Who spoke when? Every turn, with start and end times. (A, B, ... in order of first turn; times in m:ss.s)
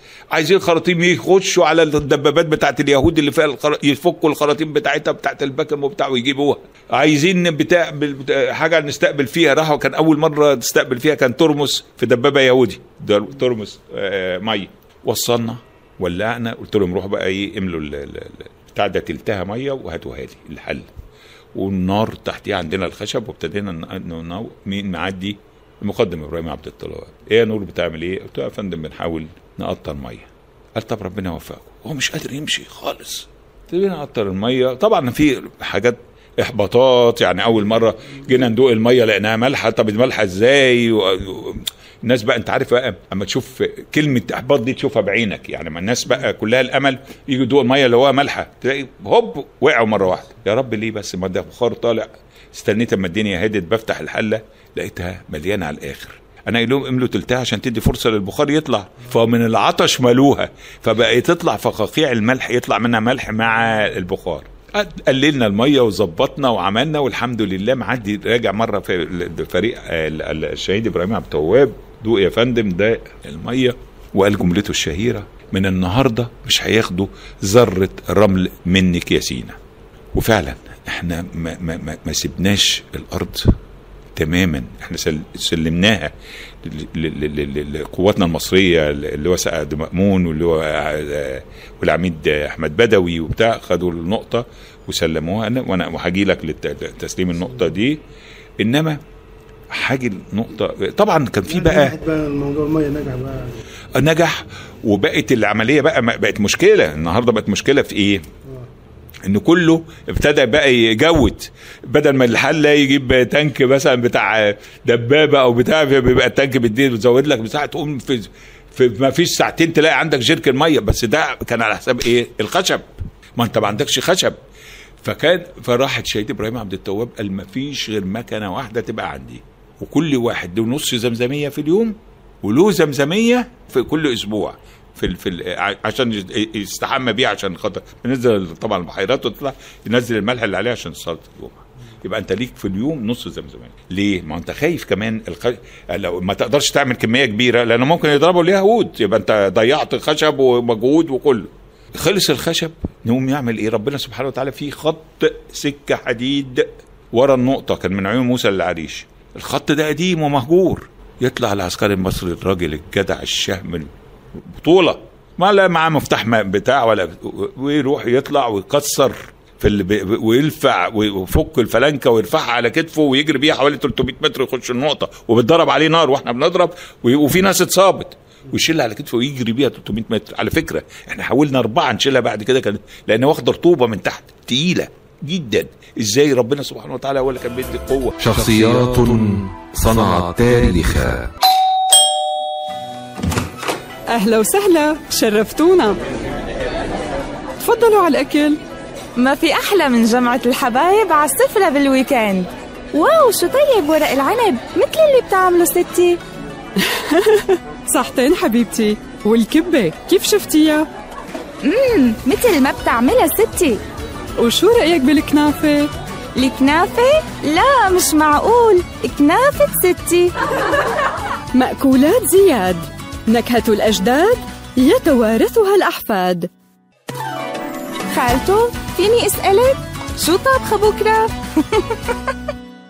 0:00.3-0:20.9 A
0:21.5-1:19.6 A
1:20.1-1:23.5 A
1:24.2-1:26.1 A
1:26.6-1:38.0 A
1:38.6-1:39.0 A
1:39.7-1:41.9 A
1:41.4-1:43.6 B
1:44.0-1:48.2 A
1:49.2-2:02.8 A
2:03.4-2:04.4 A
2:05.0-2:43.9 A
2:44.6-3:08.1 A
3:08.2-3:11.3 C
3:14.1-3:16.0 D
3:17.6-3:18.6 D
3:19.2-3:26.2 E
3:26.8-3:30.9 D
3:31.6-3:33.8 E
3:34.4-3:35.9 D
3:36.4-3:40.3 E
3:41.5-3:46.5 D
3:48.1-3:51.8 E